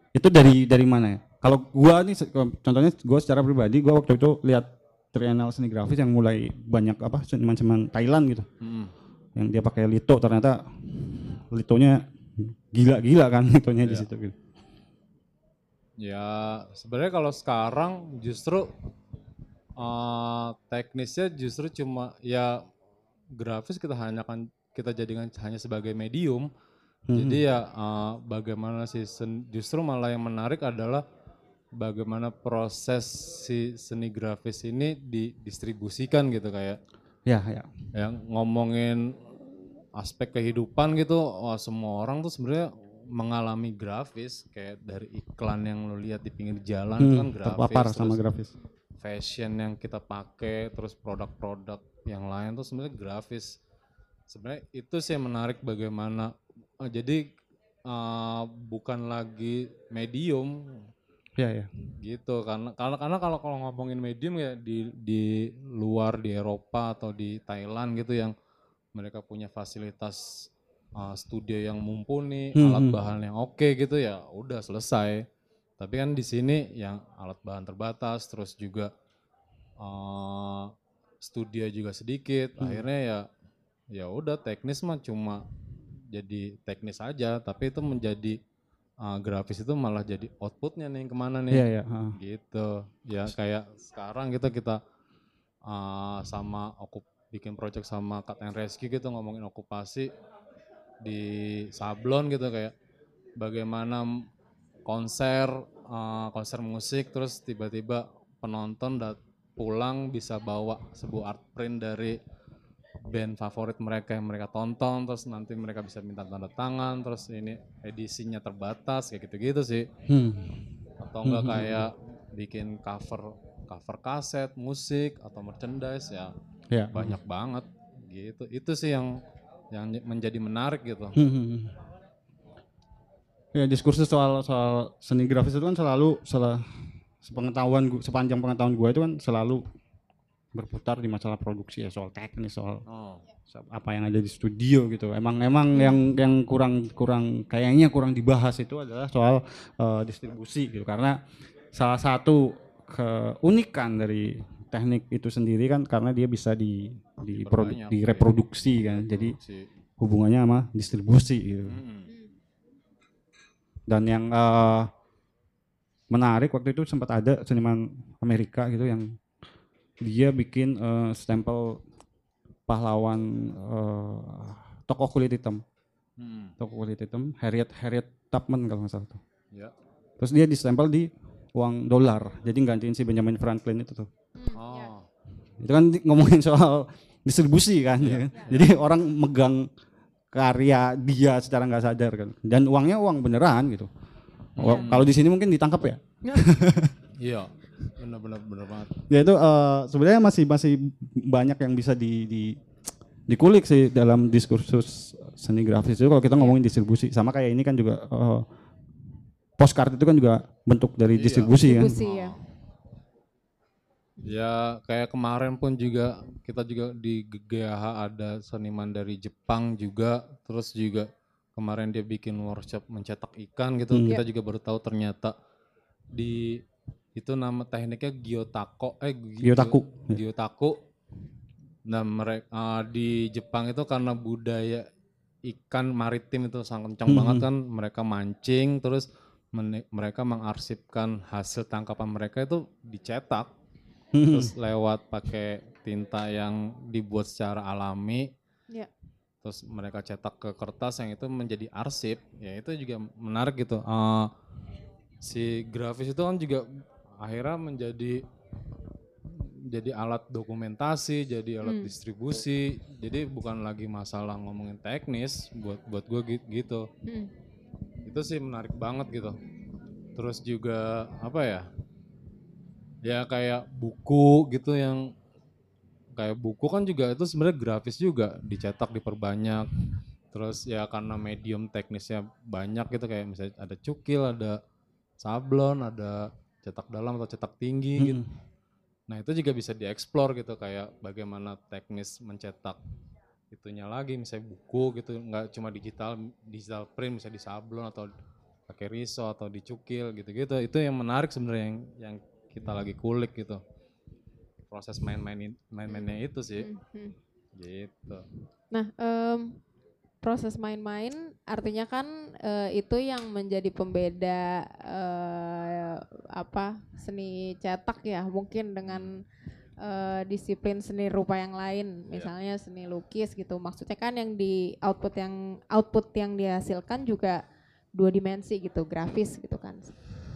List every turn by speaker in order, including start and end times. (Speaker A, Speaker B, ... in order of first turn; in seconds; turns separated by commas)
Speaker A: 0.1-8.5, Speaker B: 8.6-8.9, Speaker A: 9.3-14.3, Speaker B: 16.0-18.7, Speaker B: 19.8-22.6, Speaker B: 23.4-26.5, Speaker A: 27.1-27.4, Speaker B: 27.1-31.0, Speaker B: 31.8-36.8, Speaker A: 37.3-37.7, Speaker B: 37.9-39.3, Speaker B: 40.0-48.2, Speaker A: 47.0-48.5, Speaker B: 49.0-53.5, Speaker B: 54.3-57.2, Speaker B: 57.9-60.9, Speaker A: 61.4-61.7, Speaker B: 62.0-68.3, Speaker B: 68.9-70.3, Speaker B: 71.0-75.2, Speaker A: 72.5-73.0, Speaker B: 75.8-78.9, Speaker B: 79.8-83.3, Speaker B: 83.9-85.4, Speaker B: 86.1-88.4, Speaker B: 89.0-94.8, Speaker A: 91.5-92.2, Speaker B: 95.7-100.1, Speaker B: 101.0-102.7, Speaker B: 103.4-104.1, Speaker B: 104.8-112.2, Speaker B: 113.1-119.9, Speaker A: 120.1-120.7, Speaker B: 121.0-126.3, Speaker A: 121.2-121.9, Speaker A: 126.7-127.2, Speaker B: 126.9-129.2, Speaker B: 129.7-131.2, Speaker A: 131.1-131.8, Speaker A: 133.5-139.6, Speaker A: 140.5-142.8, Speaker B: 142.9-143.2, Speaker A: 143.5-151.2, Speaker C: 145.7-146.0, Speaker A: 151.7-159.3, Speaker B: 157.4-159.7, Speaker A: 160.0-161.8, Speaker B: 161.7-162.1, Speaker A: 163.9-164.9, Speaker A: 166.1-169.1, Speaker A: 170.0-171.8, Speaker A: 172.7-175.6, Speaker B: 176.2-176.5, Speaker A: 176.6-179.2, Speaker A: 180.2-184.1, Speaker C: 184.3-184.9, Speaker B: 184.6-185.1, Speaker A: 185.6-189.7, Speaker B: 188.0-188.5, Speaker A: 190.3-193.9, Speaker B: 194.6-195.1, Speaker A: 194.6-196.9, Speaker B: 197.2-199.0, Speaker A: 199.1-202.6, Speaker A: 203.3-208.5, Speaker A: 209.6-211.9, Speaker B: 211.1-212.4, Speaker C: 211.6-212.3, Speaker B: 214.2-225.3, Speaker A: 223.9-224.2, Speaker B: 226.1-226.6, Speaker B: 227.2-230.8, Speaker A: 229.4-230.2, Speaker B: 231.9-234.8, Speaker B: 235.4-243.5, Speaker A: 237.1-237.5, Speaker A: 244.1-244.5, Speaker B: 244.3-248.3, Speaker B: 249.4-254.3, Speaker B: 255.2-256.7, Speaker B: 257.2-258.2, Speaker B: 259.7-266.9, Speaker C: 261.6-261.9, Speaker C: 267.1-267.3, Speaker B: 268.1-269.4, Speaker B: 270.1-271.6, Speaker B: 273.0-275.1, Speaker B: 276.1-279.7, Speaker B: 280.3-284.6, Speaker B: 285.2-288.2, Speaker A: 288.0-288.3, Speaker B: 289.1-292.8, Speaker B: 293.5-298.1, Speaker B: 298.7-303.6, Speaker B: 304.7-306.7, Speaker C: 305.9-307.2, Speaker B: 307.6-308.2, Speaker C: 308.7-309.6, Speaker C: 310.2-319.2, Speaker C: 319.8-327.4, Speaker C: 327.9-330.0